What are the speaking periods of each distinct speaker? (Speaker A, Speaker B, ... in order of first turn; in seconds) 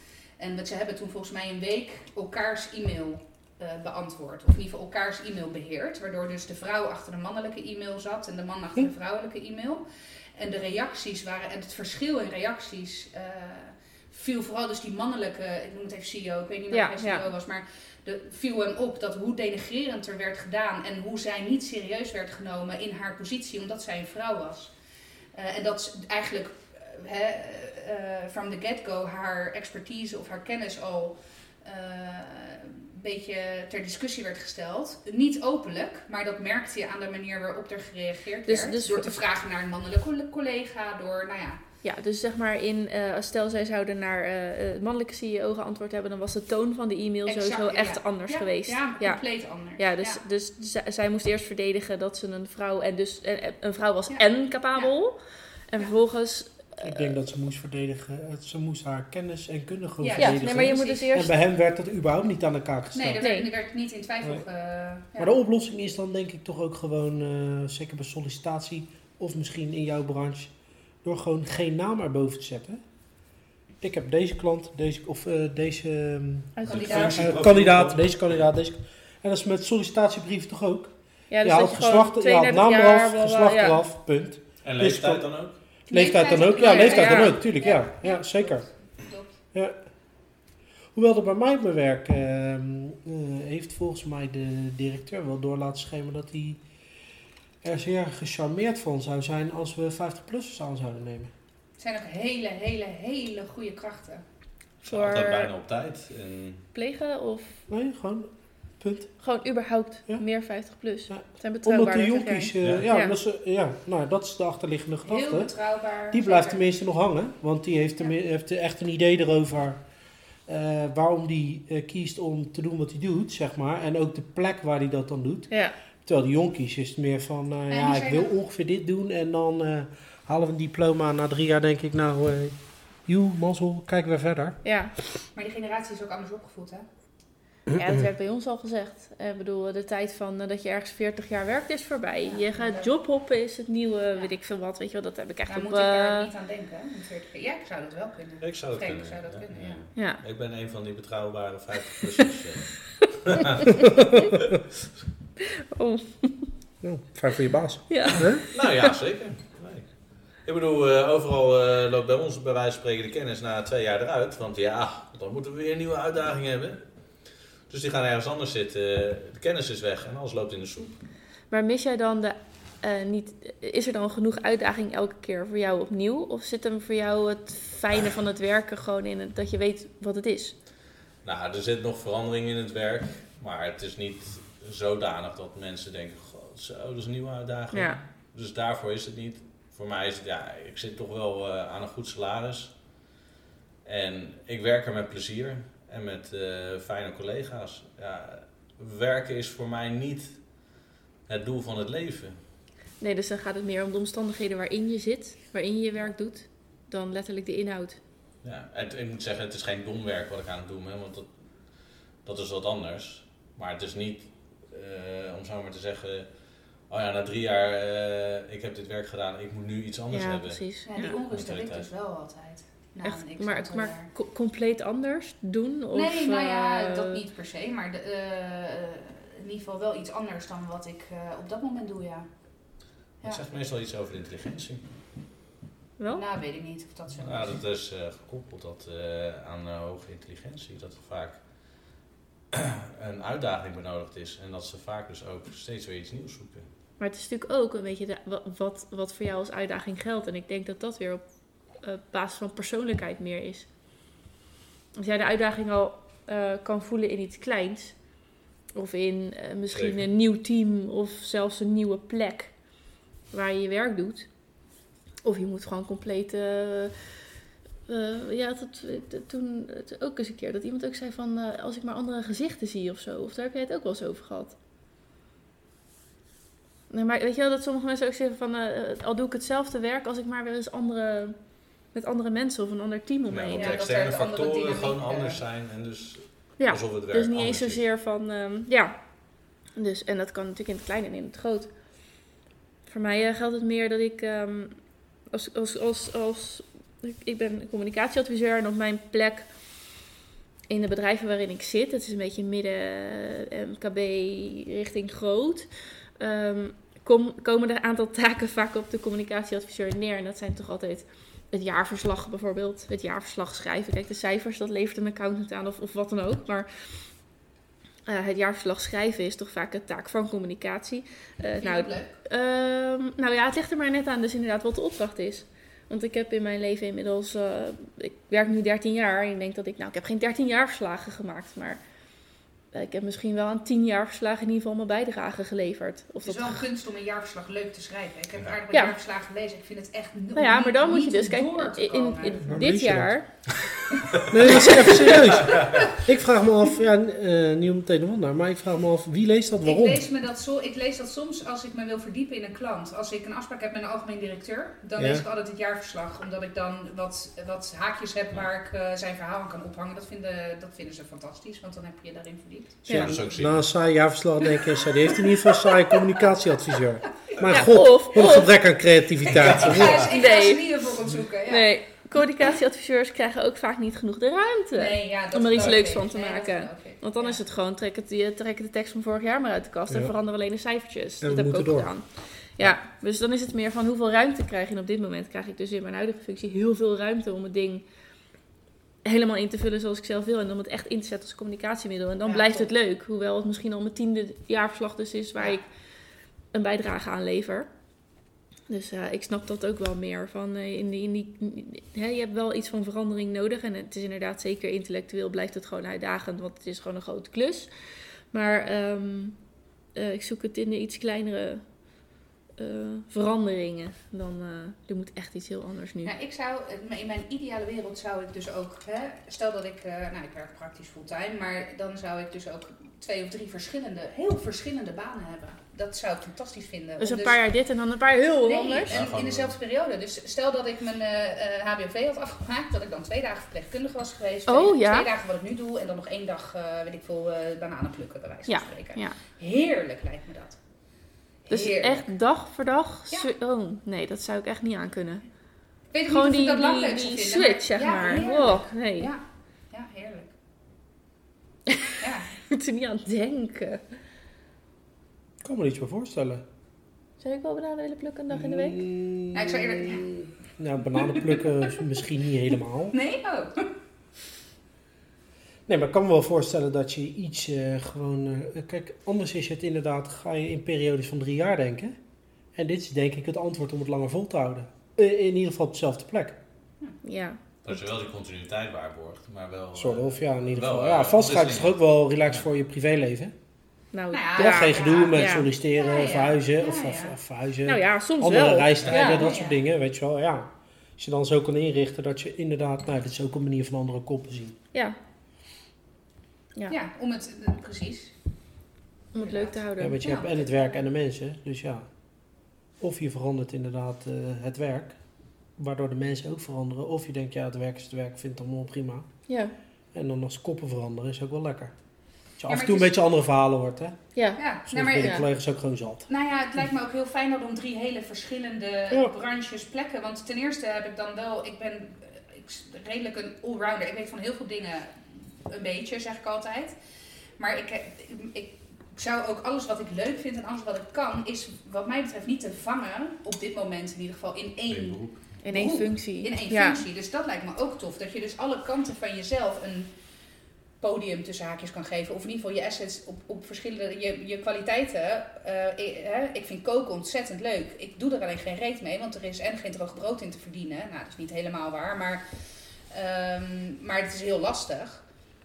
Speaker A: 0.4-9.8, 10.4-24.7, 25.4-41.6, 47.3-50.2, 54.1-54.9, 60.0-61.1, 62.9-65.3, 76.7-77.3, 85.9-89.3, 101.8-104.2, 115.1-116.6, 127.7-128.3, 135.3-136.9, 142.2-142.9, 145.5-149.9, 220.9-224.1, 225.9-232.3, 236.1-237.6, 283.5-285.4, 321.6-322.1, 336.2-342.5, 344.0-344.8, 349.6-362.8, 365.0-366.1, 369.2-371.7, 374.8-377.4, 392.2-392.7, 416.1-427.4, 428.4-440.6, 441.4-442.1, 445.9-450.3, 452.0-452.3, 459.3-460.0, 460.9-461.4, 462.9-463.7, 484.1-487.2, 488.9-489.6, 496.7-498.1, 499.2-500.8, 512.5-512.9, 514.4-515.2, 516.1-526.8, 527.4-539.9, 540.8-552.3, 552.9-555.0
Speaker B: 16.7-17.3, 38.5-39.1, 41.8-57.0, 60.2-61.3, 63.2-63.5, 76.6-77.1, 81.3-83.8, 86.6-87.4, 104.9-105.5, 106.7-107.6, 109.2-113.2, 125.5-125.8, 134.6-134.9, 137.8-146.3, 150.0-150.2, 155.7-156.5, 157.9-158.9, 171.5-180.6, 187.7-188.0, 203.0-208.0, 220.1-221.2, 223.0-227.2, 247.0-253.7, 254.9-264.6, 265.2-267.2, 267.9-274.6, 276.9-283.8, 286.6-289.0, 289.8-291.7, 292.9-299.5, 300.7-317.2, 318.1-331.8, 332.7-336.6, 340.4-343.4, 344.5-345.1, 362.9-363.2, 367.5-368.5, 370.0-370.8, 371.5-387.8, 389.0-395.7, 396.5-397.7, 398.7-407.7, 408.3-409.4, 409.9-411.6, 412.6-416.1, 427.0-428.9, 434.5-435.1, 438.5-439.2, 441.5-445.3, 446.1-449.1, 451.7-453.8, 457.2-458.8, 477.0-477.8, 483.9-485.5, 487.7-489.3, 499.1-500.3, 509.3-509.5, 514.1-514.4, 515.0-515.2, 535.4-536.9
Speaker C: 56.8-63.3, 65.2-72.8, 73.8-85.4, 85.9-88.7, 91.0-96.6, 97.6-101.3, 107.7-109.1, 111.1-115.5, 116.1-119.8, 120.5-125.5, 126.0-134.6, 137.7-138.0, 156.8-158.4, 342.5-343.1, 344.3-350.0, 355.0-355.2, 362.9-370.1, 381.2-381.9, 455.4-456.4, 458.3-463.0, 465.7-472.0, 472.5-476.4, 479.8-483.3, 484.4-494.6, 499.8-501.9, 502.8-505.0, 505.6-509.1, 509.9-511.7, 512.4-514.0, 514.7-516.1
Speaker D: 76.7-78.4, 84.6-85.6, 104.8-106.7, 148.4-153.8, 158.5-171.0, 181.2-192.8, 193.8-202.4, 208.4-220.6, 221.3-221.9, 233.2-234.9, 237.2-241.9, 242.5-246.7, 259.7-260.1, 283.3-287.8, 345.4-345.9, 362.9-363.7, 369.3-370.1, 428.9-429.6, 477.6-481.8, 534.7-535.3